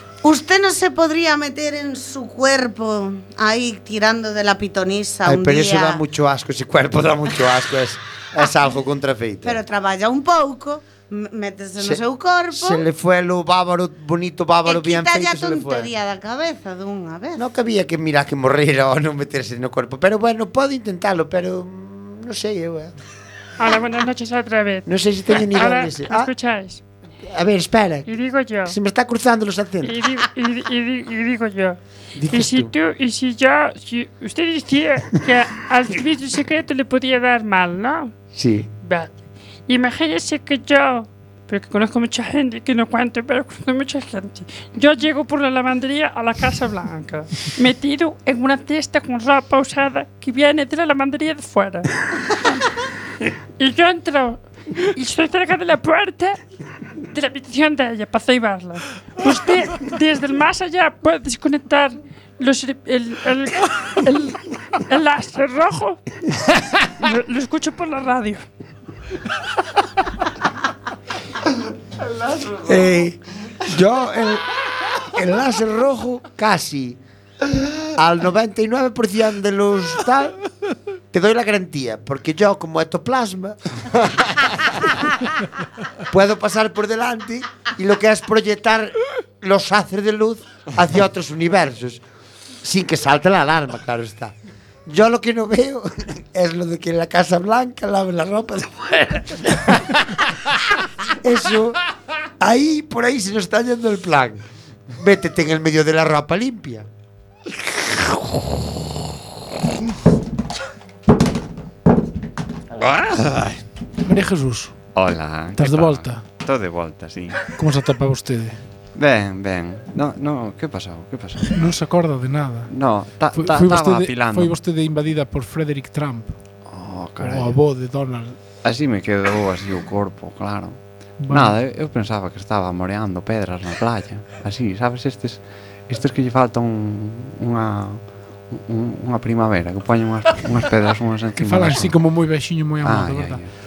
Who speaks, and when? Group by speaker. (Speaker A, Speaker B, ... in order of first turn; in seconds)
Speaker A: 0.2-6.0, 9.4-12.8, 14.7-17.4
Speaker B: 5.2-9.6, 11.8-15.9, 17.4-22.9, 24.9-26.3, 27.2-28.1, 28.6-30.0, 32.2-32.7, 38.3-38.7, 72.6-74.5, 75.0-77.0, 78.0-80.4, 81.1-83.6, 86.1-92.0, 92.6-94.3, 94.9-100.0, 101.2-101.8, 102.4-104.4, 105.0-106.9
Speaker C: 23.6-26.8, 28.1-28.8, 29.8-31.8, 32.3-38.1, 38.8-39.1, 39.7-51.9, 53.6-54.4, 54.9-56.4, 57.1-66.0, 67.0-68.5
Speaker D: 112.9-113.5, 115.0-117.5, 119.0-121.6, 122.7-124.6, 126.7-127.6, 128.6-130.8, 131.3-143.5
Speaker E: 114.0-114.8, 115.5-116.2, 117.6-118.6, 121.5-122.7, 123.3-126.3, 127.2-128.4, 131.2-131.6, 141.4-143.4